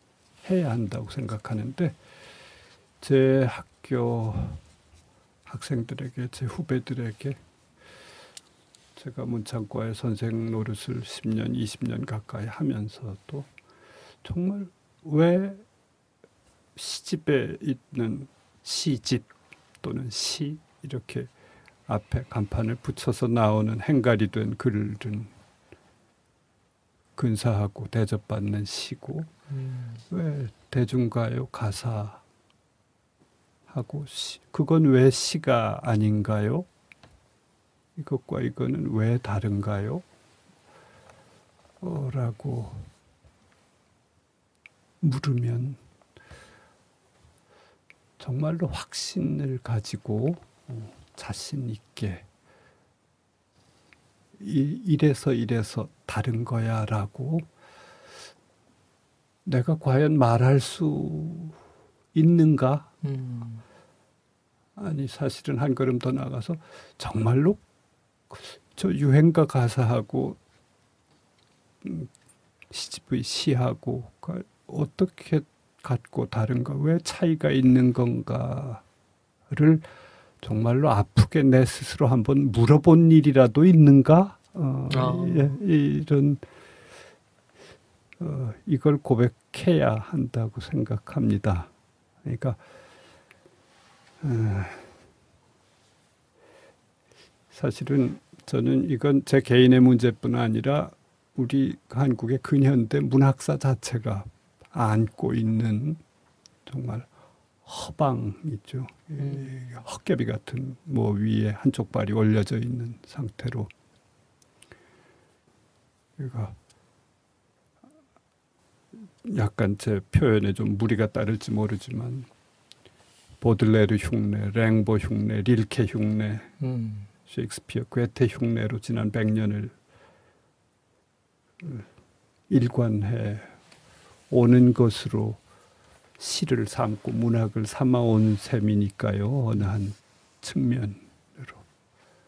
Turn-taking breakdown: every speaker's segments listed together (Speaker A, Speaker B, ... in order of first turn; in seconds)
Speaker A: 0.4-2.0, 3.0-4.6, 5.5-7.4, 8.9-13.5, 14.2-15.6, 16.8-19.3, 19.8-21.3, 21.9-25.3, 27.1-29.3, 30.1-32.2, 33.7-36.7, 38.0-40.0, 41.8-42.9, 45.0-45.8, 48.2-52.2, 54.4-57.5, 59.4-61.6, 62.1-62.9, 64.8-67.6, 68.3-70.4, 71.8-72.1, 72.7-78.8, 79.5-79.8, 80.4-86.4, 88.2-91.7, 92.2-92.6, 94.2-94.9, 97.5-106.0, 106.7-107.1, 107.6-113.7, 116.2-116.5, 119.2-122.3, 123.4-126.5, 127.3-129.7, 131.6-131.9, 132.5-133.5, 134.3-135.4, 136.2-141.6
Speaker B: 29.5-30.0, 63.0-63.6, 84.9-85.6, 109.2-109.7, 126.6-127.1